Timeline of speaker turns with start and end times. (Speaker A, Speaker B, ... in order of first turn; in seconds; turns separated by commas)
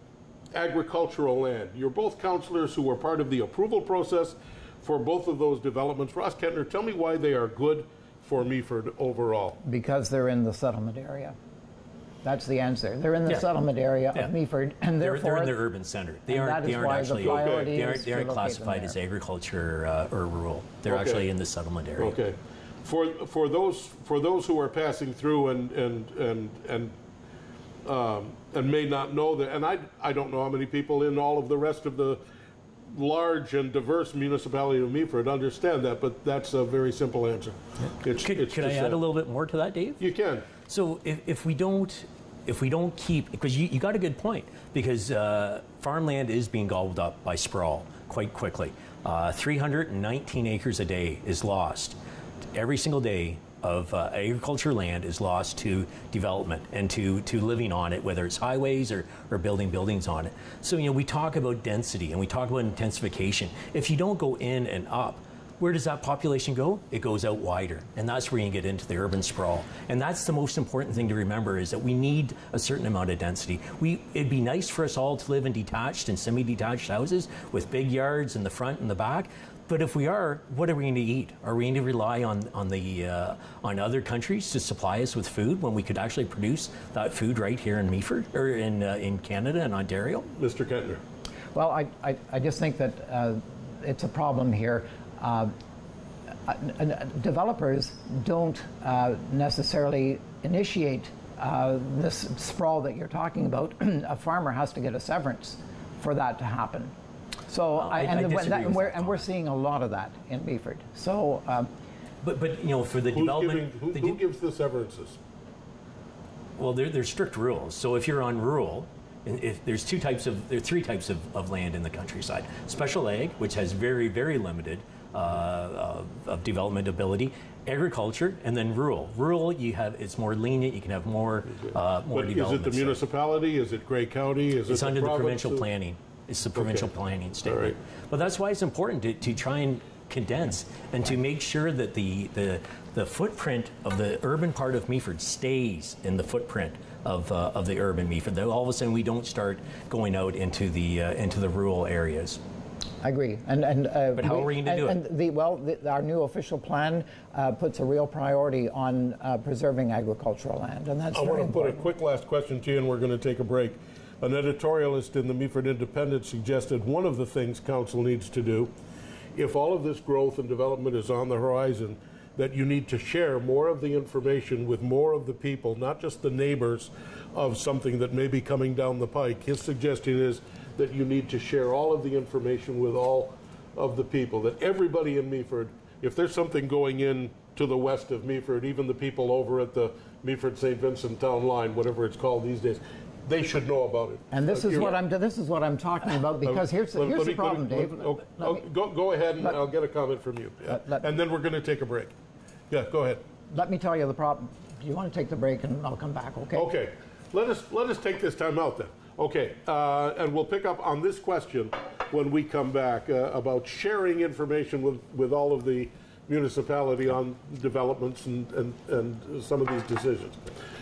Speaker A: 0.5-9.6, Speaker B: 9.6-11.3, Speaker B: 12.2-15.6, Speaker C: 15.0-22.2, Speaker B: 16.3-18.9, Speaker A: 17.2-17.7, Speaker A: 20.9-21.2, Speaker A: 22.0-26.9, Speaker A: 27.8-32.2, Speaker A: 32.9-39.0, Speaker C: 38.1-40.0, Speaker A: 40.0-40.5, Speaker C: 40.7-52.0, Speaker C: 52.5-90.3, Speaker A: 90.4-91.0, Speaker B: 91.5-95.5, Speaker B: 96.5-106.9, Speaker B: 107.5-111.7, Speaker C: 107.8-109.2, Speaker C: 112.2-114.2, Speaker A: 113.1-115.2, Speaker C: 116.6-133.0, Speaker A: 132.1-135.7, Speaker C: 134.7-152.4, Speaker A: 136.5-136.9, Speaker A: 137.4-137.7, Speaker B: 153.0-161.8, Speaker C: 154.1-155.0, Speaker A: 161.1-168.7, Speaker A: 169.3-195.0, Speaker B: 194.3-198.6, Speaker A: 196.4-202.1, Speaker B: 200.7-201.0, Speaker A: 202.7-203.2, Speaker B: 203.5-206.7, Speaker A: 206.5-220.5